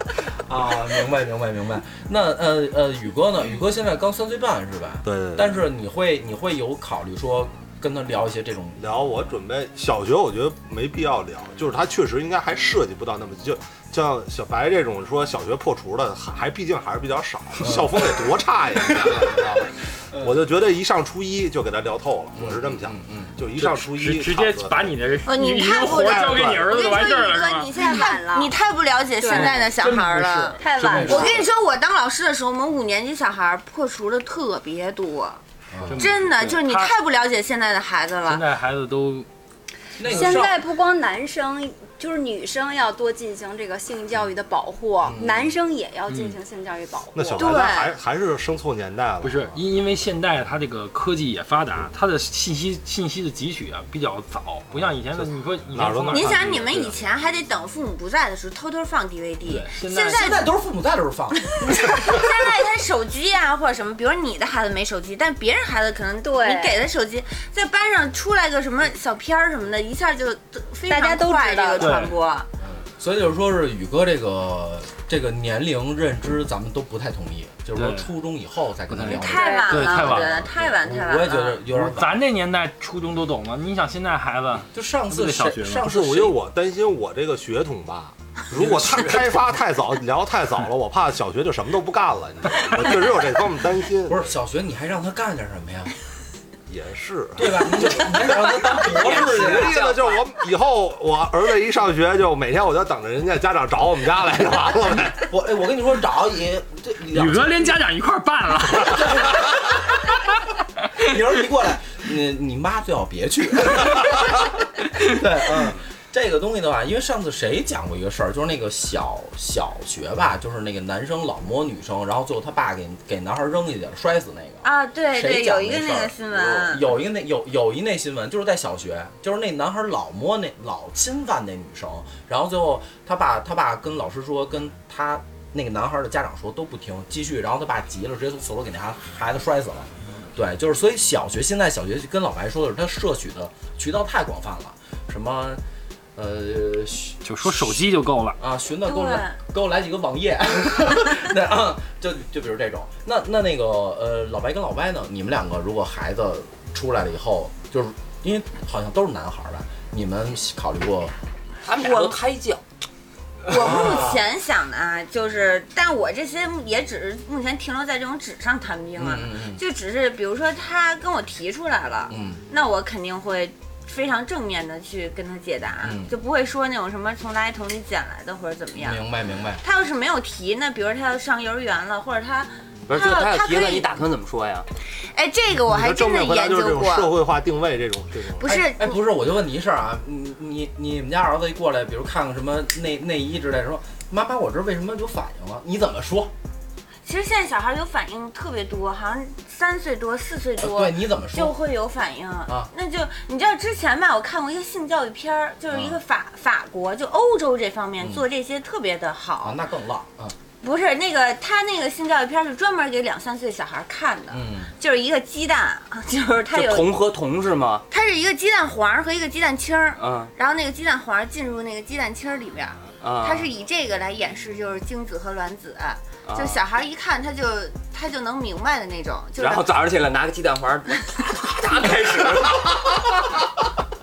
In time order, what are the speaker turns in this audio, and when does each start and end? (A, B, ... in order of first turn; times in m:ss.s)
0:00.5-0:08.8 A
0:05.0-0:05.5 B
0:08.8-0:25.0 B
0:17.6-0:17.9 A
0:22.4-0:23.4 A
0:23.6-0:27.8 C
0:25.2-0:35.4 D
0:25.9-0:26.7 B
0:27.7-0:28.5 E
0:29.2-0:29.6 E
0:29.3-0:31.4 C
0:30.6-0:31.4 E
0:30.8-0:31.4 A
0:35.7-0:36.1 A
0:35.8-0:36.9 C
0:36.0-0:38.4 D
0:38.2-0:39.3 C
0:40.0-0:40.6 A
0:40.0-0:47.5 E
0:45.0-0:45.5 A
0:46.1-0:46.4 C
0:47.2-0:49.6 B
0:47.4-0:48.0 D
0:49.2-0:57.0 C
0:54.8-0:56.7 B
0:56.1-1:00.4 D
0:59.4-1:00.3 C
1:00.1-1:01.5 A
1:01.5-1:12.5 D
1:06.2-1:06.8 E
1:10.9-1:12.1 E
1:11.8-1:12.1 C
1:12.6-1:22.2 A
1:17.8-1:18.1 C
1:18.9-1:20.5 C
1:19.1-1:21.6 D
1:19.3-1:19.8 E
1:21.7-1:25.9 C
1:24.7-1:26.4 A
1:25.8-1:34.3 B
1:28.6-1:29.3 C
1:34.1-1:35.9 A
1:36.7-1:38.1 B
1:37.4-1:39.8 A
1:38.6-1:45.2 B
1:38.9-1:40.2 F
1:45.2-1:47.8 A
1:47.1-1:49.4 C
1:49.2-1:49.8 A
1:51.0-2:25.6 A
2:04.6-2:06.9 D
2:26.2-2:27.9 A
2:27.2-2:28.4 C
2:28.4-2:41.1 A
2:28.9-2:29.4 D
2:41.6-2:42.6 F
2:41.8-2:42.2 D
2:43.4-2:59.0 D
2:43.5-2:44.3 A
2:49.0-2:49.6 A
2:52.1-2:52.4 A
2:55.8-2:56.1 A
2:58.8-2:59.6 A
2:59.6-3:03.9 D
3:02.9-3:04.7 F
3:05.1-3:07.1 D
3:05.7-3:08.5 B
3:08.4-3:09.0 D
3:08.4-3:16.3 A
3:17.0-3:29.6 D
3:20.6-3:21.6 A
3:25.7-3:26.0 A
3:29.4-3:30.4 A
3:30.6-3:36.9 D
3:34.3-3:34.7 A
3:36.5-3:37.8 F
3:37.9-3:49.7 D
3:40.0-3:40.3 F
3:43.0-3:43.5 F
3:46.3-3:46.6 F
3:49.4-3:53.0 F